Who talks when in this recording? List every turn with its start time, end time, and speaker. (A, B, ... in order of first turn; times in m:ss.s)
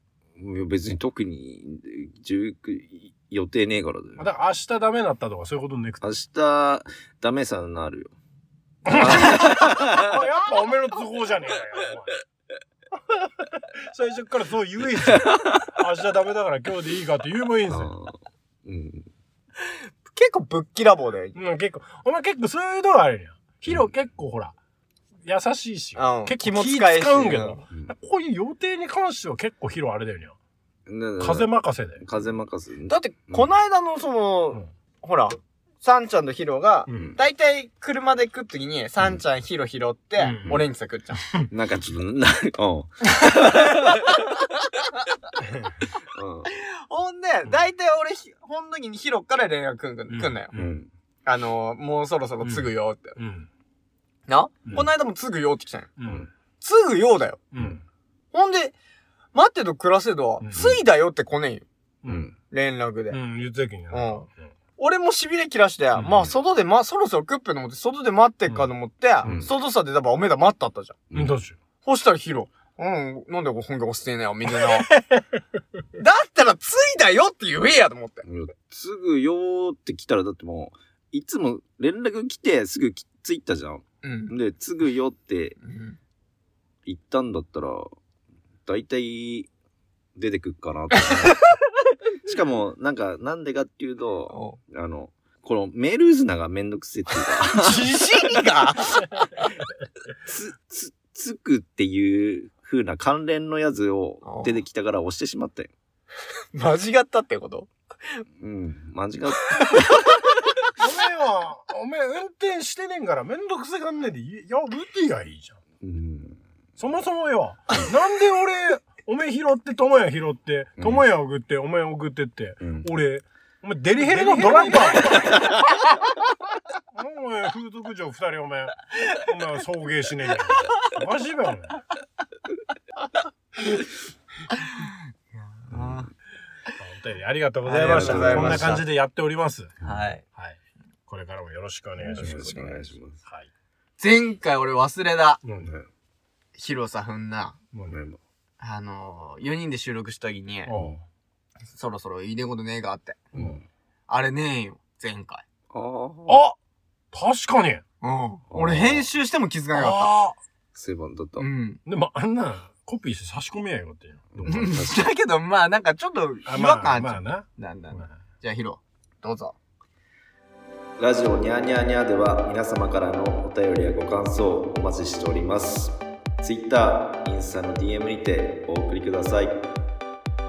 0:00.4-0:04.2 A
0:04.2-0:06.0 B
0:06.0-0:08.1 A
0:08.8-0:10.1 A
0:08.8-0:12.1 B
0:12.9-0:17.9 B
0:15.2-0:15.6 A
0:17.7-0:18.1 A
0:18.6-0:19.1 A
0:19.7-0:21.4 C
0:21.3-0:24.5 B
0:25.2-0:30.3 B
0:26.0-0:27.6 C
0:30.9-0:33.5 A
0:31.2-0:32.0 B
0:32.9-0:41.2 C
0:36.9-0:37.2 B
0:36.9-0:37.2 A
0:40.2-0:40.6 B
0:41.5-0:44.2 A
0:43.2-0:45.1 C
0:45.4-0:45.8 B
0:46.0-0:46.5 A
0:46.4-0:50.5 C
0:50.1-0:50.8 B
0:50.5-0:50.9 A
0:51.2-0:53.2 C
0:52.4-0:53.5 B
0:54.3-0:55.9 C
0:56.0-0:56.3 B
0:56.6-0:57.4 C
0:57.5-0:57.8 B
0:58.3-0:58.7 C
0:59.3-1:01.6 C
1:00.4-1:00.8 B
1:02.0-1:02.3 B
1:02.1-1:02.3 A
1:02.5-1:03.2 C
1:03.1-1:04.5 B
1:03.9-1:04.2 C
1:04.8-1:11.0 C
1:06.0-1:06.3 A
1:09.2-1:09.5 A
1:11.1-1:11.6 B
1:11.8-1:14.9 C
1:14.7-1:15.2 B
1:15.9-1:18.2 C
1:18.2-1:25.6 A
1:24.0-1:24.3 C
1:25.6-1:26.0 C
1:26.8-1:27.9 A
1:28.6-1:29.5 A
1:30.2-1:31.4 A
1:31.0-1:31.6 C
1:32.2-1:38.4 A
1:34.3-1:34.6 C
1:37.2-1:39.0 C
1:40.2-1:45.7 A
1:44.2-1:44.6 C
1:46.5-1:48.2 C
1:48.4-1:49.9 A
1:49.5-1:50.3 C
1:50.8-1:55.6 B
1:55.8-1:56.4 A
1:56.8-2:05.6 B
2:00.8-2:01.0 A
2:02.6-2:02.9 A
2:04.0-2:05.5 C
2:06.9-2:11.8 B
2:14.5-2:16.1 C
2:15.7-2:16.1 A
2:16.8-2:19.7 B
2:17.6-2:18.8 C
2:17.8-2:18.8 A
2:19.8-2:20.2 C
2:20.3-2:22.5 B
2:22.0-2:22.9 C
2:22.2-2:23.2 A
2:24.0-2:25.4 C
2:25.4-2:25.7 B
2:26.6-2:27.6 C
2:27.7-2:28.0 B
2:27.9-2:28.2 A
2:28.6-2:30.7 C
2:30.6-2:31.0 B
2:31.7-2:33.2 C
2:33.3-2:33.6 A
2:34.1-2:35.4 C
2:35.7-2:36.4 A
2:36.3-2:36.6 B
2:37.1-2:37.8 B
2:38.0-2:40.1 C
2:38.5-2:39.1 A
2:39.7-2:40.4 B
2:40.7-2:41.5 A
2:41.4-2:41.8 C
2:41.8-2:44.7 B
2:44.3-2:45.1 A
2:44.4-2:49.5 C
2:46.4-2:48.1 B
2:51.0-2:59.6 A